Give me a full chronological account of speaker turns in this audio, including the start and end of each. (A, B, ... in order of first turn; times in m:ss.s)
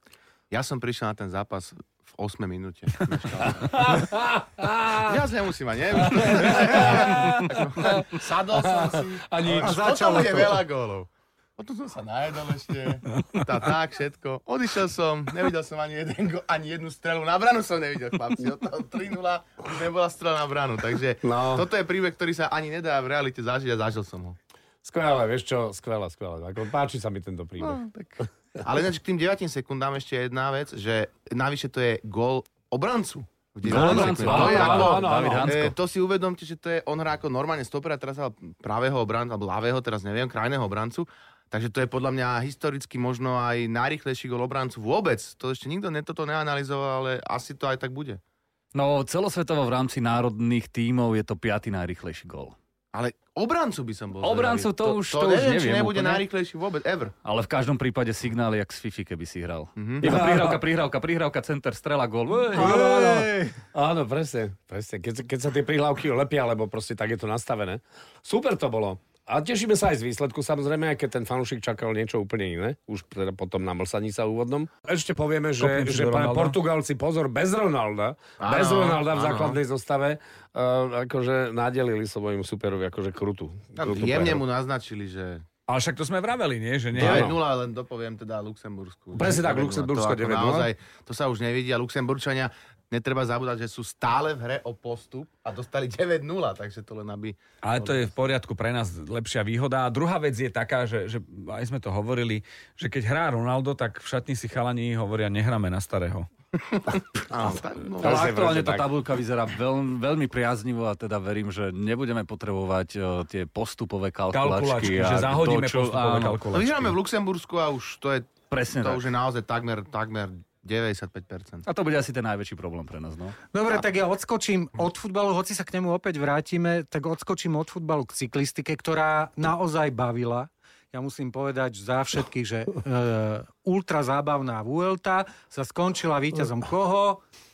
0:00.5-0:04.0 A
0:03.8-0:05.1 B
0:05.0-0:24.4 A
0:06.0-0:08.0 B
0:08.6-0:09.9 B
0:09.6-0:10.6 C
0:13.1-0:13.5 D
0:21.2-0:21.7 B
0:24.8-0:27.8 B
0:27.6-0:48.2 A
0:33.6-0:35.8 E
0:33.7-0:35.5 B
0:48.7-0:52.5 E
0:52.9-0:57.1 A
0:54.2-0:56.2 E
0:57.2-1:02.8 E
0:59.8-1:00.1 A
1:00.0-1:00.6 B
1:02.5-1:24.4 B
1:02.6-1:03.5 C
1:15.6-1:16.6 D
1:18.4-1:19.6 A
1:23.8-1:25.4 A
1:25.7-1:27.3 D
1:26.9-1:38.1 A
1:26.9-1:27.4 B
1:29.1-1:30.7 B
1:37.6-1:46.3 D
1:46.6-1:48.4 A
1:48.0-1:48.9 B
1:48.0-1:56.4 E
1:54.3-1:57.0 D
1:56.5-2:01.6 A
1:58.5-1:59.0 E
2:01.6-2:03.4 E
2:03.5-2:17.2 C